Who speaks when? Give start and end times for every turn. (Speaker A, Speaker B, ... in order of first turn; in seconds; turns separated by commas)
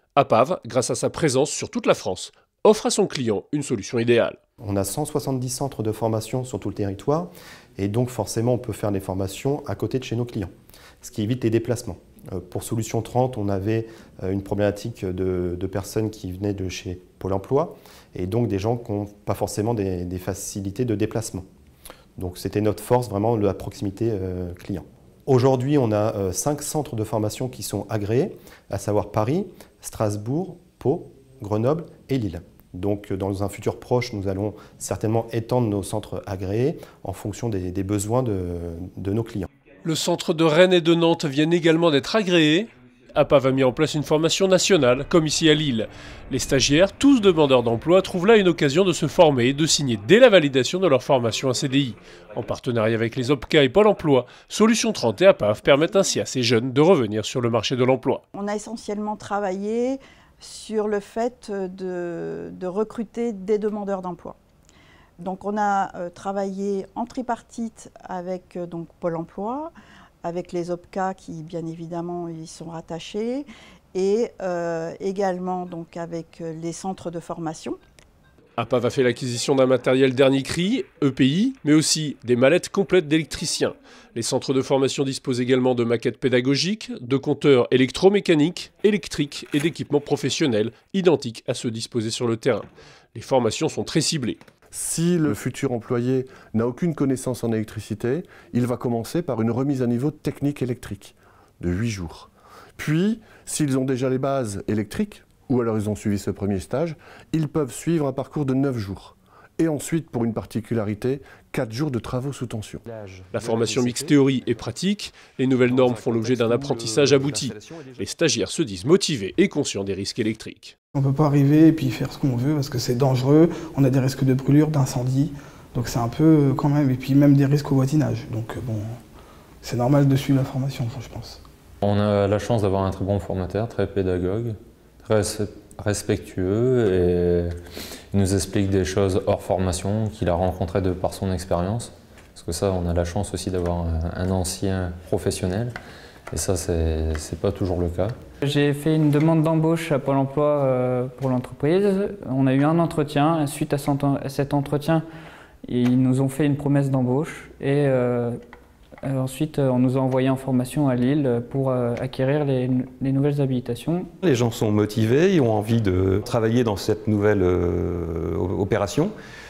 Speaker A: 0.2-4.4, Speaker B: 4.6-10.5, Speaker B: 11.0-21.4, Speaker B: 22.2-39.5, Speaker A: 39.8-58.2, Speaker C: 58.3-64.4, Speaker C: 65.2-77.8, Speaker A: 78.6-94.4, Speaker D: 94.7-112.8, Speaker E: 112.8-114.5, Speaker A: 113.3-120.8, Speaker E: 115.6-118.1, Speaker F: 121.0-129.0, Speaker F: 129.6-131.4, Speaker G: 131.8-137.5, Speaker G: 138.1-145.8, Speaker G: 146.3-148.1, Speaker H: 148.4-155.0, Speaker H: 155.7-158.4, Speaker H: 159.1-164.1, Speaker E: 164.2-169.1